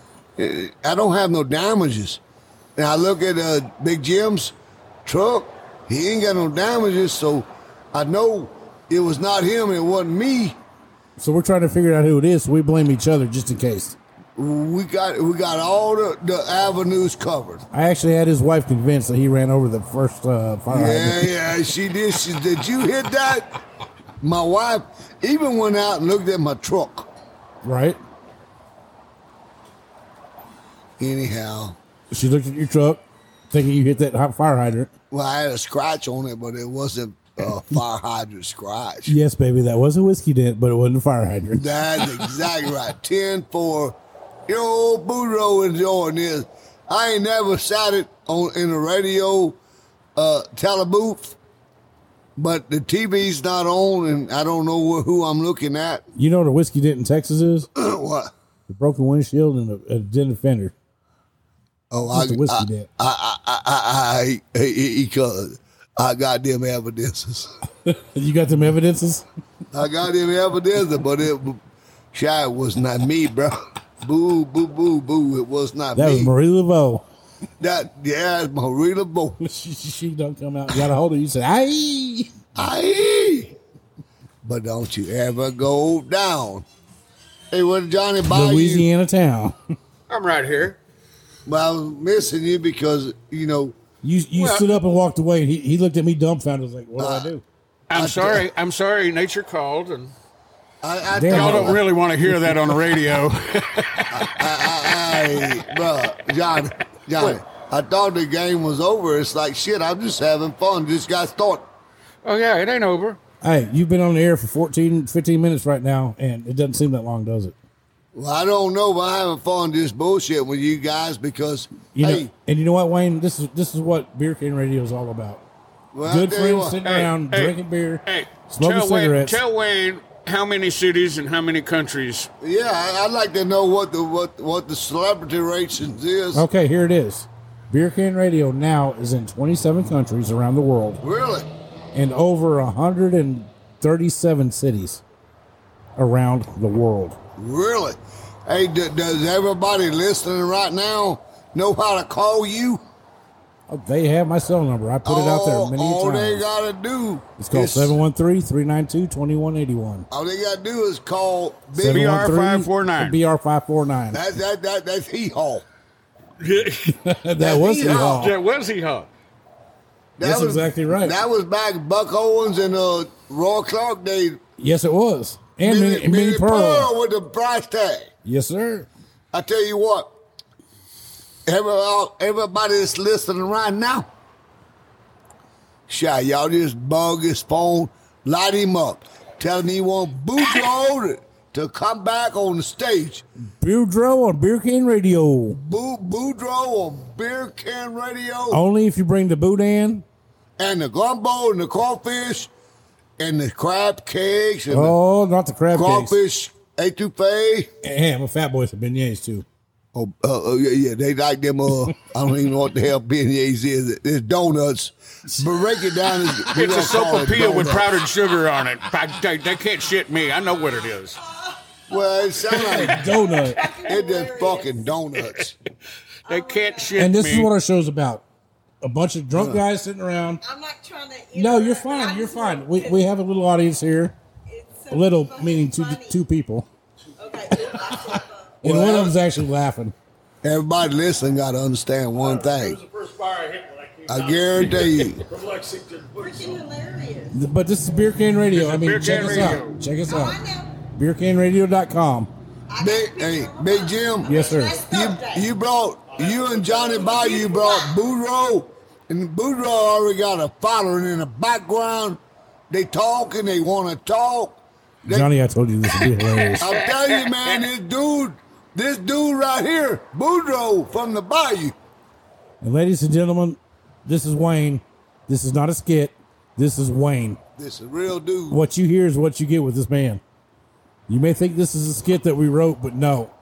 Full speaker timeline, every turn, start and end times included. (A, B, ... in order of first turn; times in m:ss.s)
0:00.4-0:02.2 A
0:02.8-0:10.6 A
0:11.2-0:14.0 B
0:14.4-0:17.6 A
0:17.7-0:21.4 B
0:20.7-0:23.6 A
0:24.2-0:27.1 A
0:27.6-0:28.0 B
0:31.0-0:31.8 A
0:32.1-0:34.9 B
0:35.1-0:39.1 A
0:39.0-0:42.2 B
0:41.5-0:49.6 A
0:50.2-0:51.4 A
0:52.4-0:56.0 A
0:56.1-0:57.7 B
0:57.7-0:58.3 A
0:58.7-1:00.7 B
1:01.9-1:07.5 A
1:02.1-1:02.9 B
1:07.8-1:09.2 B
1:09.7-1:11.6 A
1:12.1-1:16.3 A
1:16.0-1:17.0 B
1:17.6-1:19.4 A
1:19.4-1:22.3 B
1:22.6-1:23.6 A
1:24.4-1:26.6 A
1:27.5-1:28.9 A
1:28.3-1:29.6 B
1:30.1-1:30.8 C
1:31.4-1:33.7 A
1:34.0-1:37.4 B
1:34.3-1:34.8 C
1:37.0-1:37.3 A
1:37.9-1:40.1 C
1:37.9-1:38.5 A
1:40.8-1:41.8 A
1:41.1-1:41.8 B
1:41.3-1:44.4 C
1:44.1-1:51.7 A
1:52.2-1:53.2 C
1:53.4-1:57.5 B
1:58.1-2:02.3 A
2:01.9-2:05.4 B
2:05.9-2:06.8 A
2:06.0-2:09.4 B
2:06.8-2:12.3 C
2:12.4-2:16.4 A
2:16.3-2:21.0 B
2:21.0-2:21.5 A
2:21.9-2:25.0 B
2:26.0-2:27.2 B
2:27.4-2:32.8 A
2:33.7-2:36.4 B
2:35.0-2:38.0 A
2:37.4-2:40.0 B
2:40.1-2:42.2 A
2:41.8-2:44.2 B
2:41.8-2:43.2 C
2:44.1-2:45.6 A
2:46.4-2:47.0 C
2:46.9-2:48.4 B
2:47.4-2:48.3 A
2:47.9-2:49.1 C
2:50.2-2:54.4 A
2:50.2-2:51.2 B
2:54.6-2:56.9 B
2:55.6-2:58.1 A
2:58.2-2:58.9 B
2:59.3-3:00.1 A
3:01.5-3:04.1 A
3:05.9-3:13.2 A
3:13.6-3:15.6 B
3:15.5-3:18.6 A
3:18.5-3:20.0 B
3:20.6-3:22.5 A
3:23.2-3:24.9 A
3:24.7-3:26.1 B
3:25.7-3:27.7 A
3:27.8-3:29.4 B
3:29.9-3:38.0 A
3:36.5-3:41.2 C
3:41.2-3:41.6 D
3:41.9-3:43.1 A
3:42.5-3:43.7 B
3:42.8-3:44.8 D
3:43.8-3:45.6 A
3:46.2-3:47.5 C
3:46.3-3:47.0 D
3:46.9-3:48.2 B
3:48.8-3:50.4 B
3:50.4-3:53.0 D
3:51.3-3:54.1 B
3:54.5-3:56.2 D
3:54.9-3:56.7 B
3:57.2-3:58.5 D
3:57.6-3:59.9 B
3:58.6-3:59.1 A
4:00.4-4:02.8 A
4:02.4-4:06.6 E
4:04.0-4:05.2 A
4:06.1-4:07.4 D
4:07.3-4:10.4 B
4:08.5-4:09.8 C
4:10.1-4:10.7 D
4:10.9-4:12.3 B
4:12.7-4:15.4 D
4:12.8-4:22.2 A
4:14.2-4:14.8 B
4:17.1-4:18.0 D
4:22.7-4:25.3 A
4:25.0-4:26.7 B
4:26.6-4:31.7 A
4:32.6-4:37.4 B
4:37.6-4:38.6 A
4:38.5-4:40.2 B
4:41.1-4:43.3 B